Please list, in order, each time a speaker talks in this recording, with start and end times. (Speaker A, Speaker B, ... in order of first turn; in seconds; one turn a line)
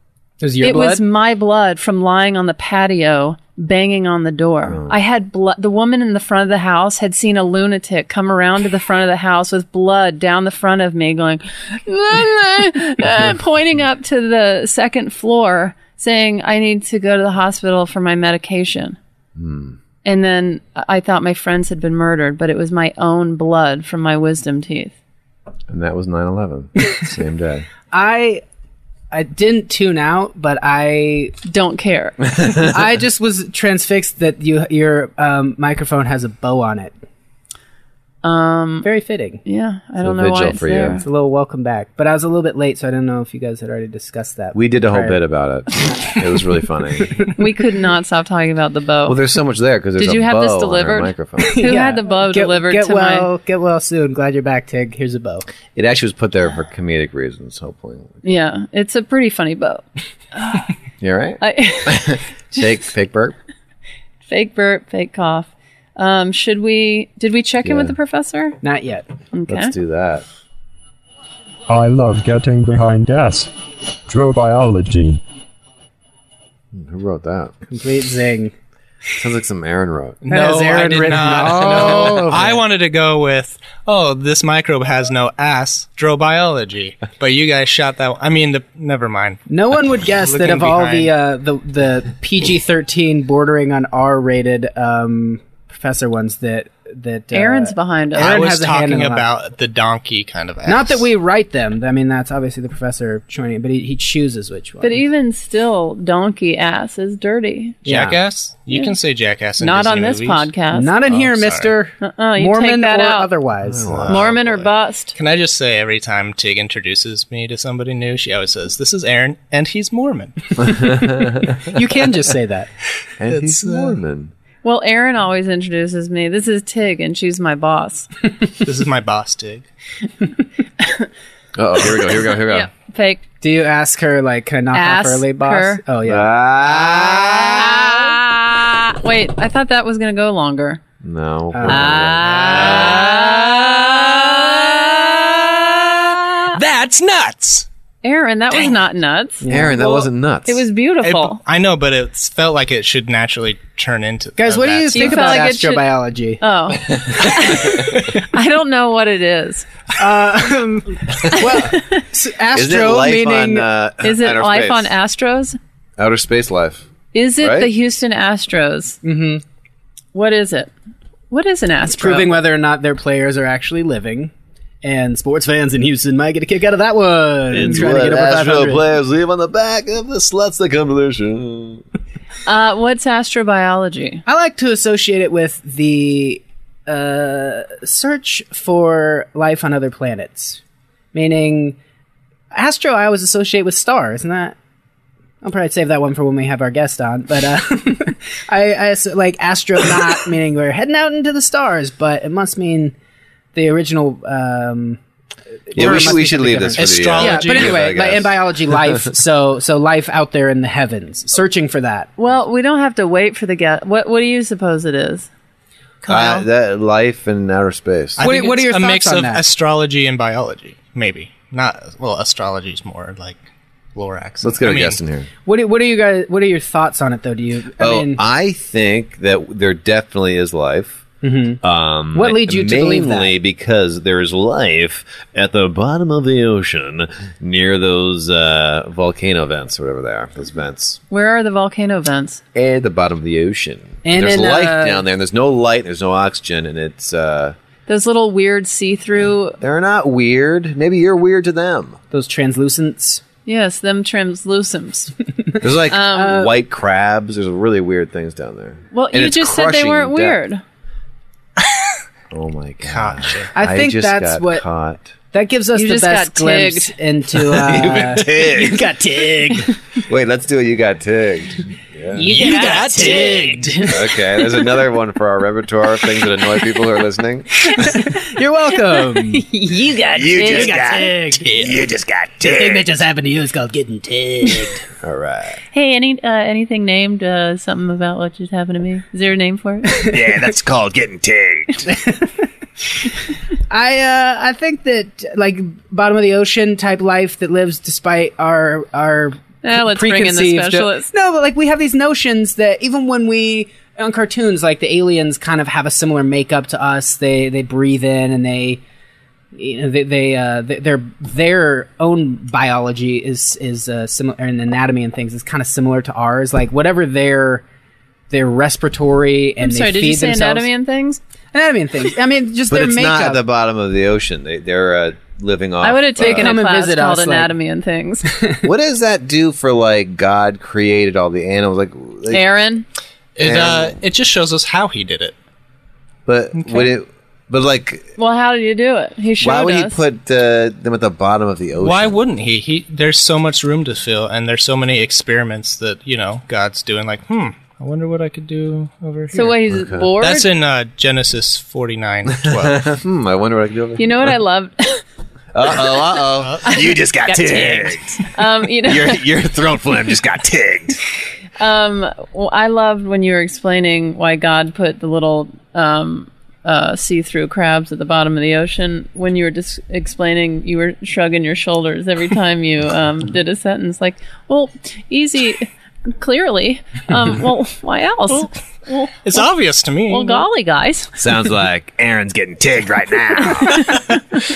Speaker A: 0.4-1.0
Speaker B: 0.6-19.0
Speaker C: 4.7-5.0
Speaker C: 19.4-19.8
Speaker B: 20.0-24.9
Speaker C: 25.7-27.7
Speaker A: 27.9-28.4
Speaker A: 29.1-31.4
Speaker B: 31.5-32.2
Speaker A: 32.6-37.0
Speaker B: 38.2-38.9
Speaker A: 38.8-39.4
Speaker B: 39.4-41.0
Speaker C: 40.0-41.0
Speaker A: 41.0-45.2
Speaker C: 44.5-47.3
Speaker B: 47.4-49.2
Speaker C: 49.1-51.8
Speaker B: 50.0-53.3
Speaker A: 51.4-55.5
Speaker C: 55.8-58.2
Speaker B: 58.2-59.8
Speaker B: 60.4-60.6
Speaker C: 61.0-63.4
Speaker B: 61.4-62.2
Speaker B: 64.3-68.6
Speaker C: 67.6-68.0
Speaker A: 68.6-69.1
Speaker B: 69.3-69.7
Speaker C: 69.5-70.2
Speaker D: 71.7-73.5
Speaker D: 74.1-75.2
Speaker C: 76.7-77.6
Speaker A: 77.7-78.5
Speaker C: 79.1-80.2
Speaker E: 80.2-89.4
Speaker A: 80.3-82.6
Speaker C: 81.3-82.6
Speaker A: 89.5-99.3
Speaker E: 90.2-91.1
Speaker B: 97.3-98.4
Speaker E: 98.2-101.0
Speaker A: 100.7-105.0
Speaker B: 104.8-107.8
Speaker A: 107.8-108.2
Speaker E: 107.9-110.5
Speaker B: 109.6-110.9
Speaker A: 110.7-114.0
Speaker E: 111.1-111.7
Speaker B: 112.0-113.3
Speaker C: 113.7-114.5
Speaker E: 113.9-114.6
Speaker B: 114.1-115.2
Speaker E: 115.2-120.9
Speaker C: 120.7-121.5
Speaker A: 121.6-122.7
Speaker C: 123.2-124.3
Speaker E: 123.3-123.9
Speaker B: 124.6-128.1
Speaker E: 128.6-129.7
Speaker B: 130.8-131.1
Speaker C: 131.6-132.7
Speaker B: 132.5-133.2
Speaker A: 133.4-137.5
Speaker B: 134.7-135.8
Speaker C: 136.0-137.9
Speaker B: 137.6-140.8
Speaker C: 141.0-143.1
Speaker A: 141.5-143.5
Speaker B: 141.7-144.6
Speaker B: 146.2-146.6
Speaker E: 146.5-147.7
Speaker B: 148.0-151.4
Speaker A: 149.4-149.9
Speaker C: 149.5-150.6
Speaker E: 151.0-155.4
Speaker A: 154.4-156.4
Speaker B: 154.9-155.9
Speaker B: 156.4-159.7
Speaker A: 160.0-163.7
Speaker B: 161.3-162.0
Speaker C: 162.5-164.9
Speaker B: 164.0-165.6
Speaker C: 166.0-166.9
Speaker B: 167.1-169.0
Speaker C: 167.4-167.7
Speaker A: 169.0-169.4
Speaker B: 170.1-170.7
Speaker B: 171.3-172.3
Speaker A: 171.9-174.3
Speaker A: 174.8-178.8
Speaker C: 177.5-181.8
Speaker B: 182.5-184.2
Speaker A: 184.2-190.6
Speaker A: 191.1-191.8
Speaker A: 192.5-194.6
Speaker A: 195.4-202.9
Speaker A: 203.5-205.0
Speaker A: 205.7-212.1
Speaker C: 205.7-208.3
Speaker E: 205.8-207.9
Speaker B: 212.2-215.3
Speaker B: 216.0-216.5
Speaker C: 216.1-218.2
Speaker A: 218.2-219.4
Speaker E: 218.2-223.4
Speaker E: 223.9-225.0
Speaker C: 224.4-225.3
Speaker A: 225.5-228.2
Speaker C: 227.8-231.1
Speaker A: 231.2-233.4
Speaker C: 231.6-241.0
Speaker B: 241.1-242.4
Speaker C: 242.5-247.6
Speaker A: 244.0-245.1
Speaker B: 247.9-249.6
Speaker C: 249.6-252.0
Speaker A: 252.1-253.2
Speaker B: 253.5-255.1
Speaker C: 255.6-260.4
Speaker B: 255.9-256.4
Speaker A: 256.1-256.5
Speaker B: 258.9-260.6
Speaker C: 262.3-265.2
Speaker E: 262.9-263.5
Speaker A: 263.6-264.6
Speaker A: 265.3-269.8
Speaker B: 265.8-266.9
Speaker C: 267.4-268.9
Speaker C: 270.1-277.5
Speaker A: 272.1-274.2
Speaker E: 272.4-273.6
Speaker A: 277.7-281.9
Speaker C: 280.1-282.9
Speaker B: 280.4-280.7
Speaker A: 282.4-284.8
Speaker C: 285.0-285.6
Speaker B: 285.7-290.0
Speaker C: 290.1-291.9
Speaker A: 291.9-292.4
Speaker A: 293.7-308.8
Speaker B: 299.6-301.1
Speaker A: 309.5-317.6
Speaker A: 318.3-320.7
Speaker B: 319.6-321.2
Speaker A: 321.5-323.5
Speaker C: 322.7-326.6
Speaker B: 325.8-328.3
Speaker A: 326.2-327.6
Speaker A: 328.3-328.6
Speaker C: 328.6-332.5
Speaker B: 332.3-332.9
Speaker E: 333.4-335.4
Speaker C: 333.4-333.9
Speaker C: 336.2-338.1
Speaker E: 336.6-336.9
Speaker B: 338.2-340.0
Speaker C: 339.4-342.1
Speaker E: 341.8-349.6
Speaker B: 349.3-350.5
Speaker C: 349.7-350.1
Speaker E: 350.2-352.8
Speaker C: 352.5-354.4
Speaker B: 354.0-355.0
Speaker C: 355.5-361.0
Speaker E: 356.4-356.9
Speaker B: 356.7-359.2
Speaker B: 361.6-379.4
Speaker E: 379.2-380.4
Speaker B: 380.1-381.1
Speaker C: 381.2-384.0